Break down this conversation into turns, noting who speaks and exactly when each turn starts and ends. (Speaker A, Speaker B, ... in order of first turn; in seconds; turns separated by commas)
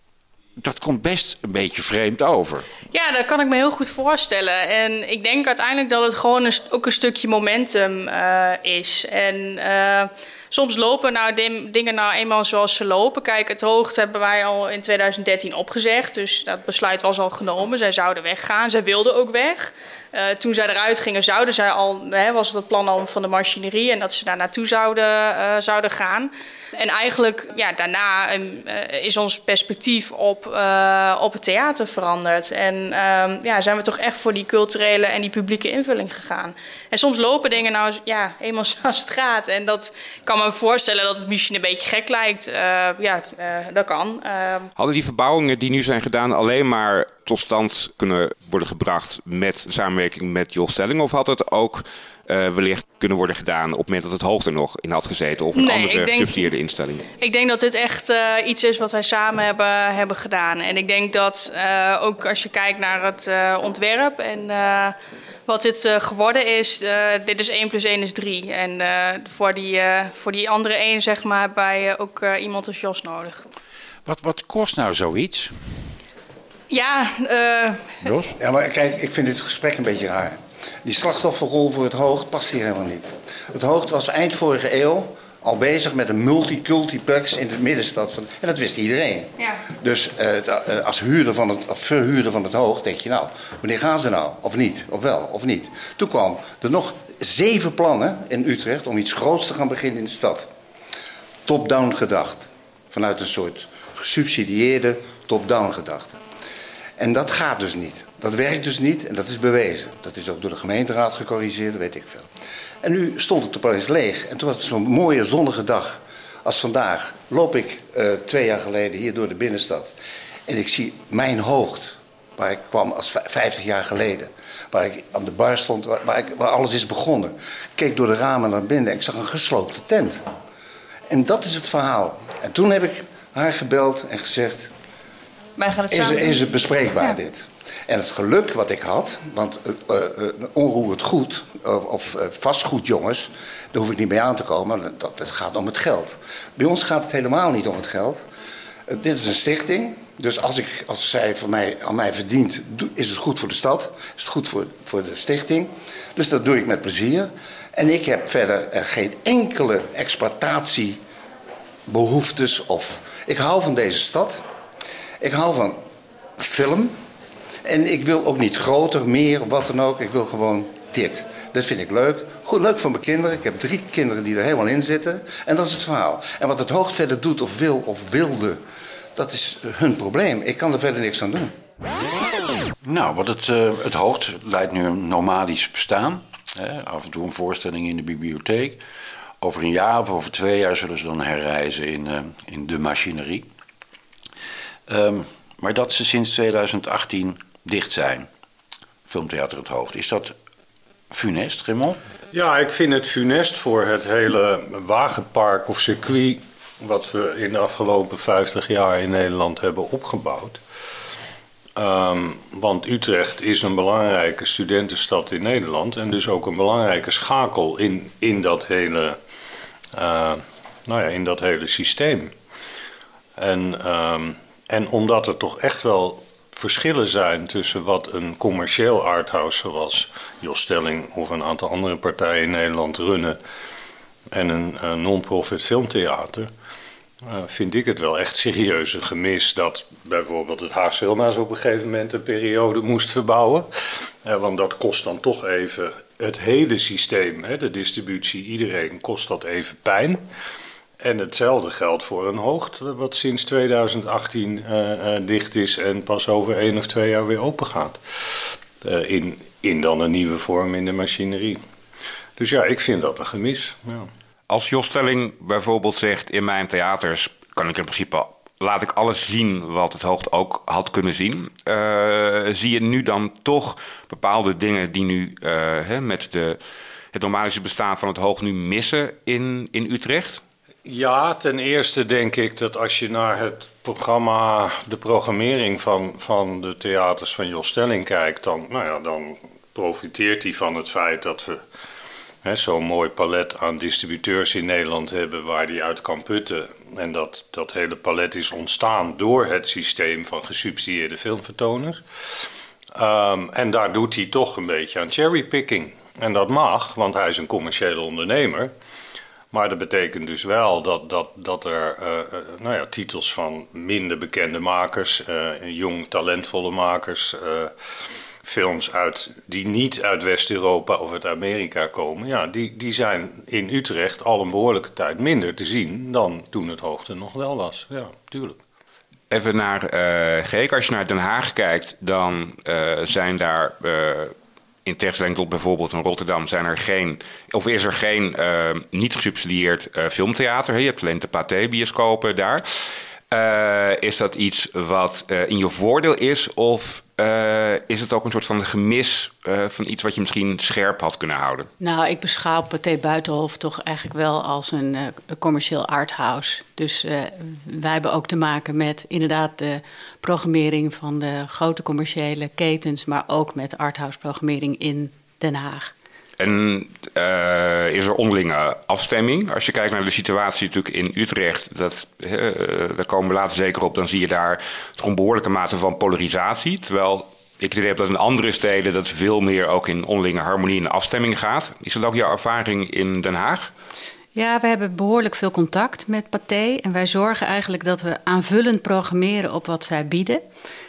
Speaker A: 0.6-2.7, Speaker B: 2.9-44.7, Speaker C: 44.8-57.1, Speaker B: 55.5-56.5, Speaker B: 57.2-73.4, Speaker A: 74.1-75.9, Speaker B: 76.7-78.0, Speaker A: 78.0-78.3, Speaker D: 78.4-100.5, Speaker D: 101.5-106.2, Speaker D: 107.0-112.3, Speaker D: 112.8-119.9, Speaker D: 120.5-130.2, Speaker D: 131.1-134.7, Speaker B: 135.6-136.4, Speaker D: 135.9-148.2, Speaker D: 148.9-161.0, Speaker D: 161.9-164.4, Speaker D: 165.2-165.8, Speaker D: 166.4-167.0, Speaker D: 167.7-178.6, Speaker D: 179.2-181.5, Speaker A: 182.8-188.8, Speaker A: 189.4-193.5, Speaker A: 194.9-198.3, Speaker A: 199.1-200.3, Speaker A: 201.1-202.0, Speaker E: 202.3-210.6, Speaker E: 211.8-219.2, Speaker E: 219.9-222.3, Speaker E: 223.4-233.4, Speaker E: 234.3-236.5, Speaker E: 237.2-250.2, Speaker E: 251.0-261.6, Speaker E: 262.4-264.1, Speaker C: 264.5-276.6, Speaker C: 277.1-280.4, Speaker E: 280.9-291.6, Speaker E: 292.4-308.7, Speaker E: 309.5-317.7, Speaker E: 318.4-328.6, Speaker C: 329.3-334.3, Speaker C: 334.9-351.7, Speaker F: 351.8-365.9, Speaker C: 366.4-383.7, Speaker F: 384.4-390.4